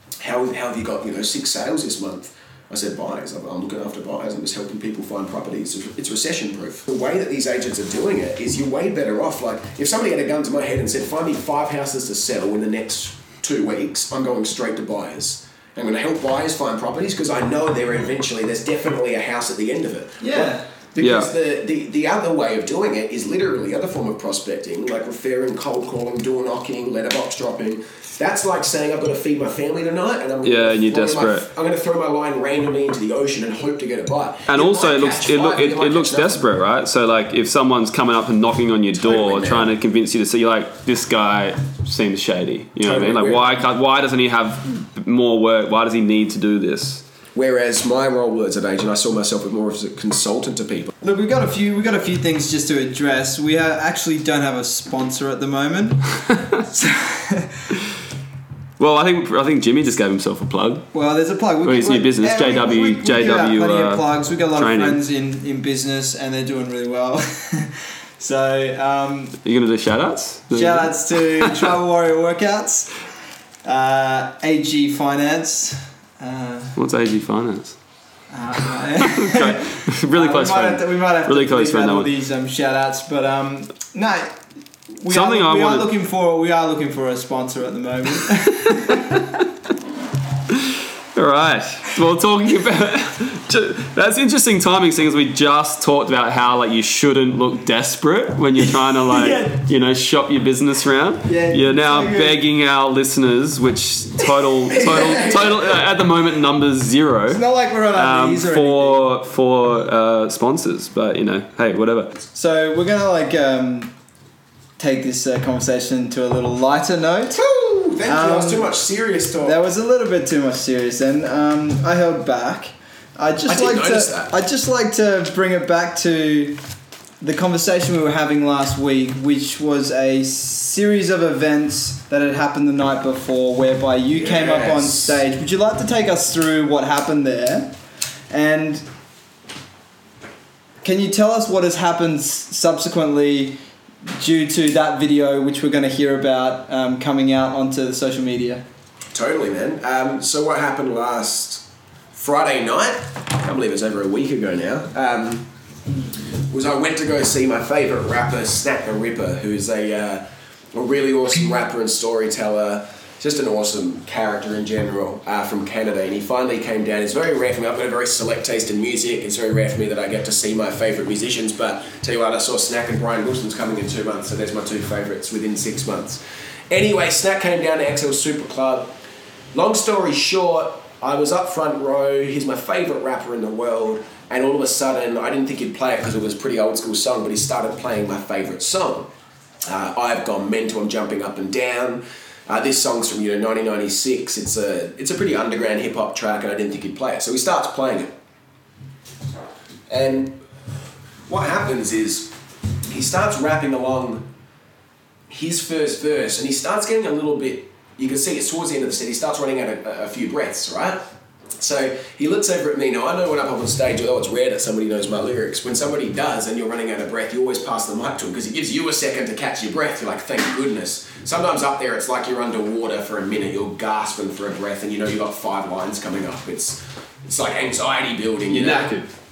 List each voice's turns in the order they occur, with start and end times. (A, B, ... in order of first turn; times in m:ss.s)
0:00.2-0:36.4 A
0:20.2-0:20.6 B
0:21.0-0:21.3 C
0:30.4-0:31.5 C
0:34.5-0:47.0 C
0:38.9-0:39.7 A
0:42.8-0:43.5 A
0:47.4-0:51.0 A
0:51.0-0:56.0 B
0:56.7-0:57.5 B
0:58.8-1:00.9 C
1:00.9-1:09.4 B
1:01.6-1:05.0 C
1:09.4-1:11.7 C
1:10.5-1:12.9 B
1:13.6-1:16.8 B
1:16.8-1:17.8 C
1:18.3-1:24.3 B
1:19.0-1:22.1 C
1:25.0-1:29.2 B
1:25.1-1:25.9 C
1:28.7-1:29.2 C
1:30.5-1:52.1 C
1:39.1-1:39.6 B
1:41.3-1:42.4 B
1:44.7-1:45.8 A
1:47.3-1:49.0 B
1:52.3-1:53.9 B
1:54.8-1:57.4 B
1:57.3-1:59.6 A
1:58.1-1:58.7 B
1:59.4-2:06.6 B
2:03.5-2:04.3 A
2:07.2-2:17.7 B
2:14.1-2:15.2 A
2:18.3-2:18.8 B
2:20.8-2:23.6 B
2:24.2-2:28.6 B
2:29.1-2:35.5 A
2:36.5-2:58.9 A
2:59.5-3:09.1 A
3:09.6-3:18.1 A
3:19.9-3:20.4 A
3:21.3-3:22.3 A
3:22.9-3:24.2 A
3:25.3-3:31.0 A
3:31.6-3:48.9 A
3:48.5-3:49.1 C